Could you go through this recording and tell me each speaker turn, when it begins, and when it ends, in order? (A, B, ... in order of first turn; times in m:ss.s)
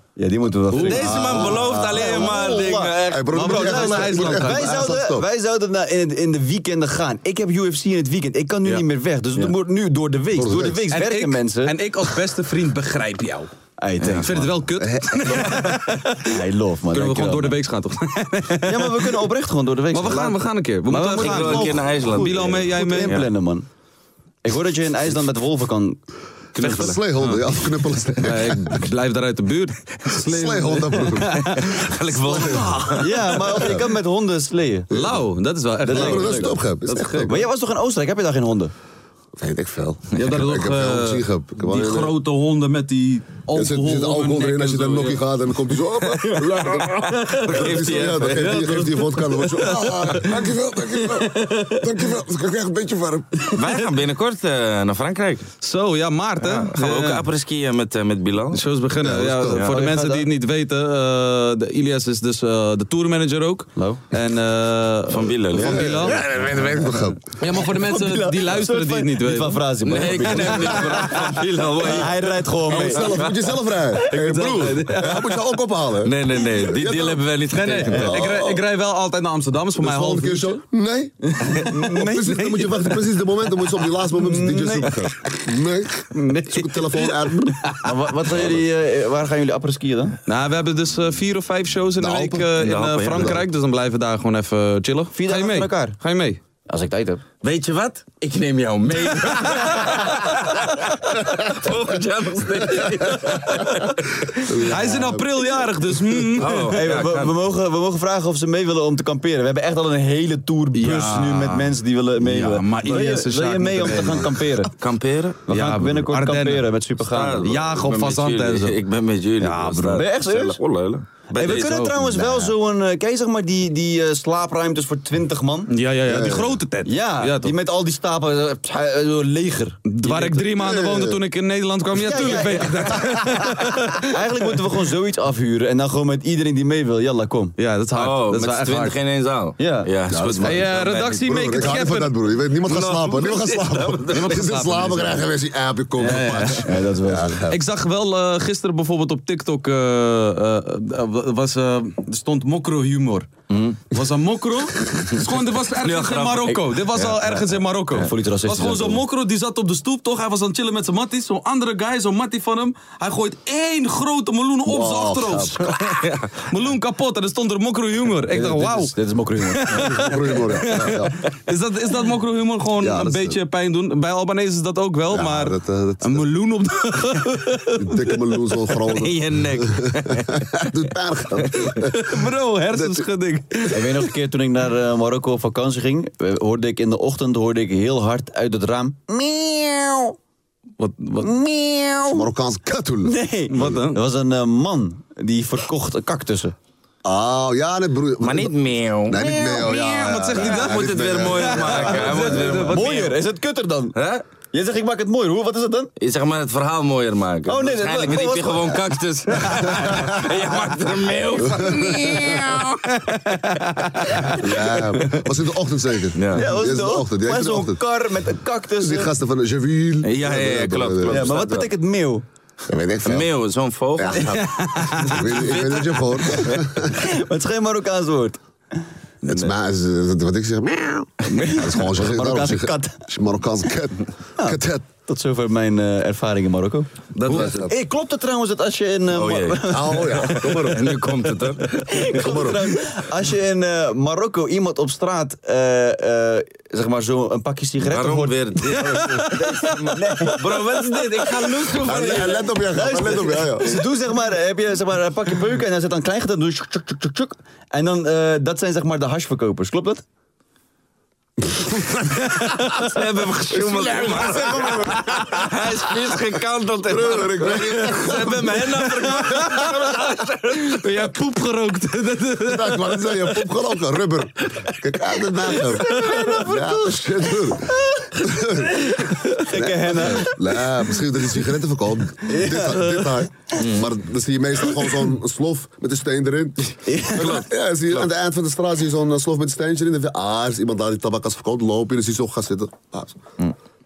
0:00.2-0:11.8 A
0:00.7-0:01.2 B
0:00.7-0:03.4 C
0:00.9-0:05.2 D
0:03.3-0:04.9 B
0:10.3-0:10.9 D
0:10.9-0:13.5 B
0:13.8-0:14.5 A
0:14.1-0:16.4 B
0:14.8-0:15.8 D
0:16.2-0:17.6 A
0:16.9-0:19.2 B
0:18.6-0:23.7 A
0:19.9-0:23.2 B
0:20.9-0:23.2 C
0:24.4-0:26.0 A
0:26.5-0:28.9 D
0:26.6-0:27.5 B
0:28.2-0:31.8 B
0:30.1-0:31.6 D
0:31.4-0:33.6 C
0:32.1-0:33.0 D
0:32.9-0:34.9 A
0:33.5-0:33.9 D
0:34.9-0:37.3 B
0:34.9-0:35.2 D
0:35.8-0:36.6 A
0:35.9-0:37.4 D
0:37.2-0:38.7 A
0:39.4-0:42.2 D
0:40.1-0:50.4 B
0:43.5-0:53.5 D
0:47.4-0:49.0 C
0:51.1-0:51.8 B
0:53.5-0:55.5 C
0:55.6-0:57.2 B
0:56.4-0:58.6 C
0:58.5-1:06.2 B
0:59.0-0:59.6 D
0:59.7-1:00.3 A
1:03.8-1:04.0 A
1:05.1-1:06.2 C
1:05.5-1:07.4 D
1:07.4-1:09.6 B
1:07.5-1:13.2 A
1:09.8-1:13.5 C
1:10.2-1:11.2 B
1:12.7-1:17.2 D
1:14.0-1:15.4 B
1:16.0-1:18.2 C
1:17.5-1:20.6 B
1:17.8-1:18.6 D
1:19.8-1:27.8 D
1:21.3-1:23.0 A
1:24.0-1:25.1 A
1:26.2-1:27.1 A
1:27.7-1:30.2 A
1:30.3-1:36.4 B
1:32.0-1:32.5 D
1:32.6-1:33.4 C
1:33.1-1:33.4 D
1:35.1-1:36.0 A
1:36.6-1:37.2 A
1:37.4-1:44.5 C
1:44.4-1:45.6 D
1:44.7-1:46.8 B
1:46.4-1:47.3 C
1:46.7-1:54.7 A
1:50.8-1:54.4 B
1:54.8-1:55.4 C
1:55.5-1:57.6 A
1:55.5-1:56.7 B
1:57.0-2:01.9 C
1:57.4-1:58.8 B
1:59.4-2:00.0 B
1:59.8-2:00.6 A
2:01.3-2:05.7 A
2:01.4-2:02.0 B
2:05.7-2:07.5 B
2:06.0-2:06.6 D
2:06.8-2:10.5 A
2:09.9-2:14.2 B
2:10.6-2:11.2 D
2:11.9-2:17.6 A
2:17.6-2:18.9 B
2:17.9-2:21.2 C
2:19.6-2:19.9 A
2:20.1-2:27.6 D
2:20.4-2:22.2 B
2:22.6-2:24.6 C
2:24.1-2:25.2 B
2:26.0-2:26.7 B
2:26.0-2:27.4 A
2:27.5-2:33.3 B
2:33.5-2:33.8 A
2:33.9-2:48.9 B
2:35.8-2:37.5 C
2:37.9-2:39.0 A
2:44.6-2:45.9 D
2:46.0-2:46.3 C
2:48.3-2:50.2 A
2:49.5-2:58.2 B
2:49.9-2:51.2 D
2:52.8-2:53.4 D
2:55.1-2:56.3 D
2:57.8-3:03.1 D
2:58.8-3:01.8 C
3:01.8-3:04.1 B
3:03.7-3:10.2 A
3:10.8-3:11.3 B
3:11.2-3:12.3 A
3:12.1-3:13.7 D
3:13.0-3:16.5 A
3:13.5-3:14.0 B
3:17.0-3:22.7 D
3:18.2-3:19.3 C
3:19.3-3:22.6 B
3:20.3-3:23.2 C
3:21.8-3:24.0 A
3:24.0-3:24.2 C
3:24.5-3:25.9 A
3:26.0-3:32.8 C
3:27.4-3:28.8 A
3:29.5-3:30.3 A
3:31.3-3:32.6 D
3:32.8-3:34.4 B
3:34.3-3:37.8 D
3:36.1-3:36.5 C
3:36.3-3:39.1 A
3:38.8-3:41.6 D
3:40.0-3:41.6 C
3:41.0-3:42.2 A
3:42.7-3:43.3 D
3:43.0-3:46.6 C
3:44.0-3:47.0 D
3:44.4-3:45.1 B
3:46.9-3:48.4 A
3:49.2-3:54.9 D
3:49.3-3:49.5 C
3:51.4-3:53.0 A
3:54.4-4:00.4 A
3:57.1-3:57.7 C
3:57.3-3:57.7 D
3:59.1-4:02.2 C
3:59.7-4:00.9 D
4:01.7-4:20.0 A
4:02.1-4:02.7 D
4:07.8-4:13.0 C
4:08.8-4:09.4 B
4:11.8-4:13.8 D
4:21.5-4:22.4 D
4:22.4-4:22.8 B
4:22.7-4:31.0 C
4:23.4-4:25.9 D
4:26.9-4:28.6 D
4:28.7-4:29.8 B
4:30.5-4:33.3 B
4:32.4-4:53.2 D
4:35.6-4:36.8 B
4:38.7-4:40.6 A
4:42.2-4:43.2 A
4:43.5-4:43.9 C
4:46.8-4:47.4 A
4:47.2-4:48.1 C